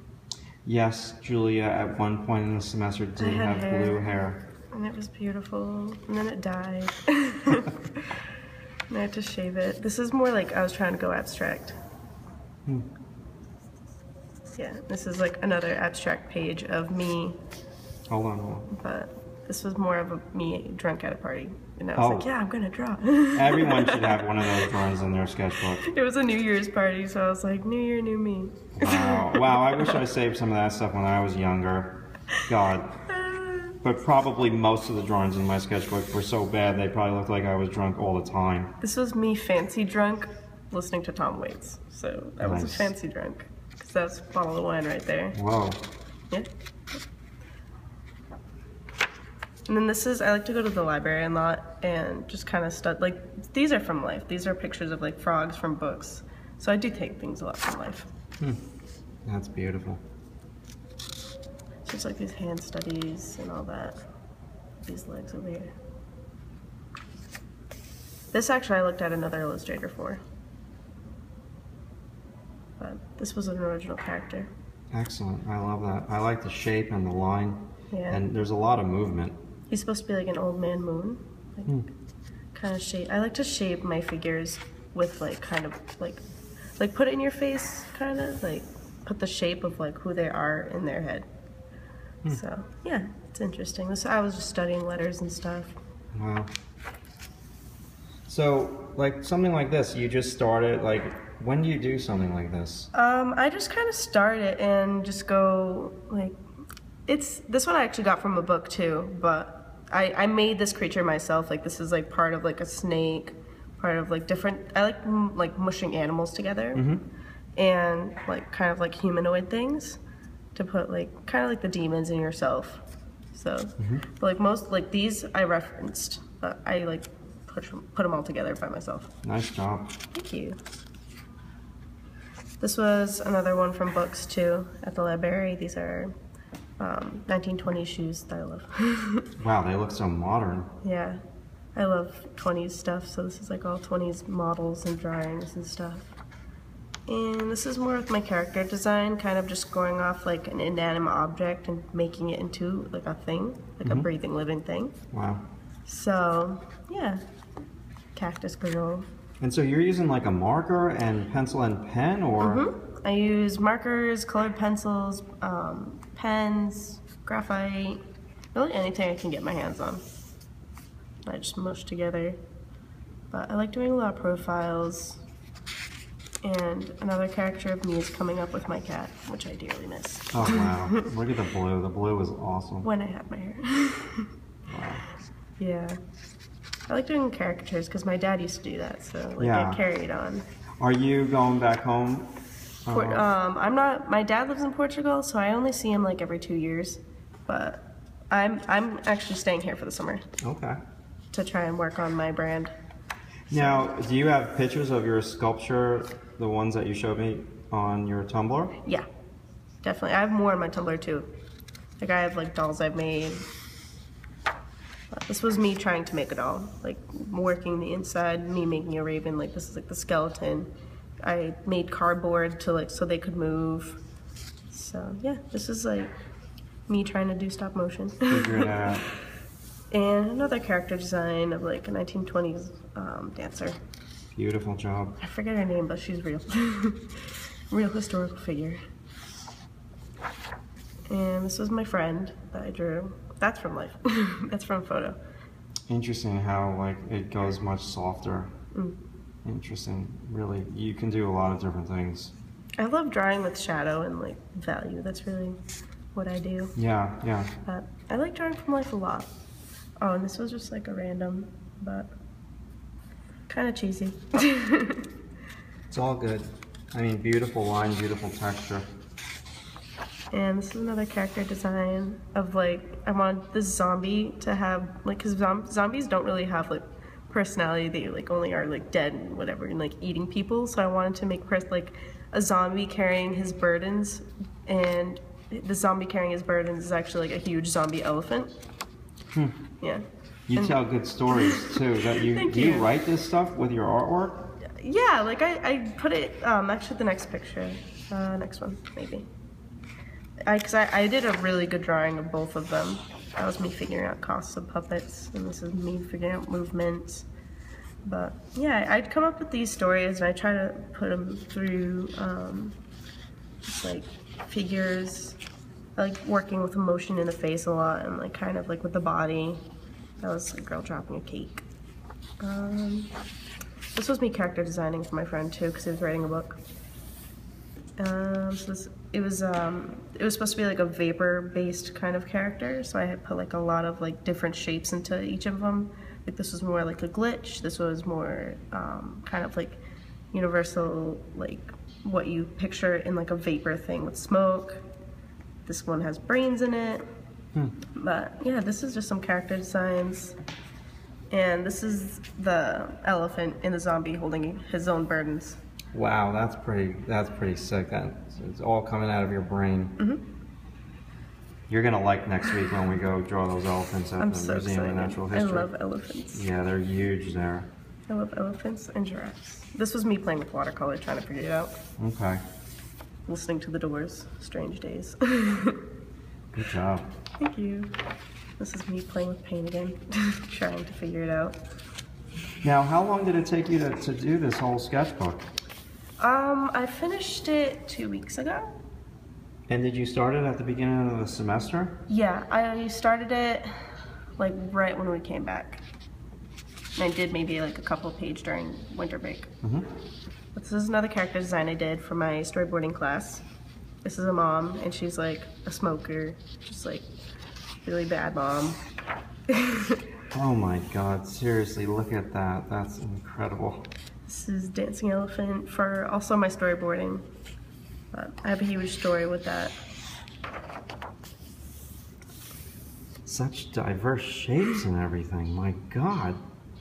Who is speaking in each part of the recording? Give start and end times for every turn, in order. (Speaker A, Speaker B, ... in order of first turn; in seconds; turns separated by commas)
Speaker A: 0.6-4.4, Speaker B: 3.2-4.1, Speaker B: 4.7-8.2, Speaker B: 8.9-11.8, Speaker B: 14.6-17.4, Speaker A: 18.1-18.7, Speaker B: 18.7-24.7, Speaker A: 21.9-22.3, Speaker A: 23.3-25.8, Speaker B: 25.8-30.0, Speaker A: 28.7-32.9, Speaker B: 33.1-33.8, Speaker A: 33.8-38.7, Speaker B: 38.8-45.4, Speaker A: 42.4-42.9, Speaker A: 45.3-45.9, Speaker B: 49.7-58.1, Speaker A: 59.2-60.0, Speaker B: 61.8-64.0, Speaker B: 64.8-65.7, Speaker B: 68.3-70.2, Speaker B: 72.8-74.5, Speaker A: 74.9-79.4, Speaker B: 77.9-78.2, Speaker B: 79.7-81.8, Speaker B: 82.5-86.2, Speaker B: 86.8-91.2, Speaker B: 92.3-95.7, Speaker A: 96.1-96.5, Speaker A: 98.3-102.9, Speaker B: 102.9-106.3, Speaker B: 107.1-116.8, Speaker A: 116.7-117.0, Speaker B: 117.5-120.0, Speaker B: 120.5-122.8, Speaker B: 123.3-129.1, Speaker A: 123.8-124.0, Speaker A: 129.2-129.9, Speaker B: 130.1-130.6, Speaker B: 132.6-136.1, Speaker B: 136.8-139.3, Speaker A: 139.4-140.7, Speaker B: 140.8-141.2, Speaker B: 141.7-146.1, Speaker B: 147.1-154.9, Speaker A: 155.1-155.4, Speaker B: 155.9-157.2, Speaker B: 158.1-159.1, Speaker A: 159.4-162.6, Speaker B: 162.4-168.0, Speaker B: 168.5-170.0, Speaker B: 171.2-172.4, Speaker B: 173.3-175.2, Speaker B: 176.4-181.1, Speaker A: 180.3-182.9, Speaker B: 182.8-184.3, Speaker A: 184.7-185.0, Speaker B: 185.6-186.0, Speaker B: 186.9-190.4, Speaker A: 189.4-189.8, Speaker A: 190.8-192.3, Speaker A: 192.8-193.3, Speaker B: 192.9-200.2, Speaker A: 200.4-200.8, Speaker B: 201.3-202.7, Speaker A: 203.5-208.7, Speaker B: 203.5-203.9, Speaker B: 209.8-211.3, Speaker B: 212.0-213.4, Speaker B: 215.1-220.7, Speaker B: 221.2-224.0, Speaker B: 224.7-226.1, Speaker B: 226.9-229.0, Speaker A: 228.3-229.0, Speaker B: 229.9-233.8, Speaker A: 234.3-235.2, Speaker B: 235.2-238.8, Speaker B: 241.1-245.2, Speaker A: 245.9-248.5, Speaker A: 249.4-252.3, Speaker B: 252.8-255.6, Speaker B: 256.1-256.7, Speaker A: 256.8-257.5, Speaker B: 257.6-259.3, Speaker B: 260.0-262.1, Speaker B: 263.5-265.1, Speaker A: 265.9-268.9, Speaker B: 270.3-288.5, Speaker A: 290.5-294.5, Speaker B: 291.3-292.9, Speaker B: 294.6-299.2, Speaker B: 300.4-307.2, Speaker B: 308.0-312.8, Speaker B: 313.6-315.4, Speaker B: 315.9-319.6, Speaker B: 320.2-321.6, Speaker B: 322.4-323.1, Speaker B: 323.9-326.6, Speaker B: 328.0-339.8, Speaker B: 340.3-344.8, Speaker B: 345.6-347.1, Speaker B: 347.9-350.3, Speaker B: 351.3-355.6, Speaker A: 355.9-359.9, Speaker A: 361.7-365.7, Speaker B: 364.2-366.4, Speaker A: 366.3-367.7, Speaker B: 368.1-371.7, Speaker A: 372.0-372.4, Speaker B: 373.3-375.8, Speaker A: 376.5-377.1, Speaker B: 377.4-377.9, Speaker B: 378.6-381.6, Speaker A: 382.6-385.5, Speaker B: 386.2-388.7, Speaker A: 389.7-392.0, Speaker B: 392.1-393.9, Speaker B: 394.4-395.8, Speaker B: 396.9-399.5, Speaker A: 399.6-399.9, Speaker B: 400.5-403.4, Speaker B: 404.0-407.1, Speaker B: 407.8-408.8, Speaker B: 409.5-410.0, Speaker A: 410.3-413.9, Speaker B: 414.3-417.2, Speaker B: 418.1-419.8, Speaker A: 423.2-426.4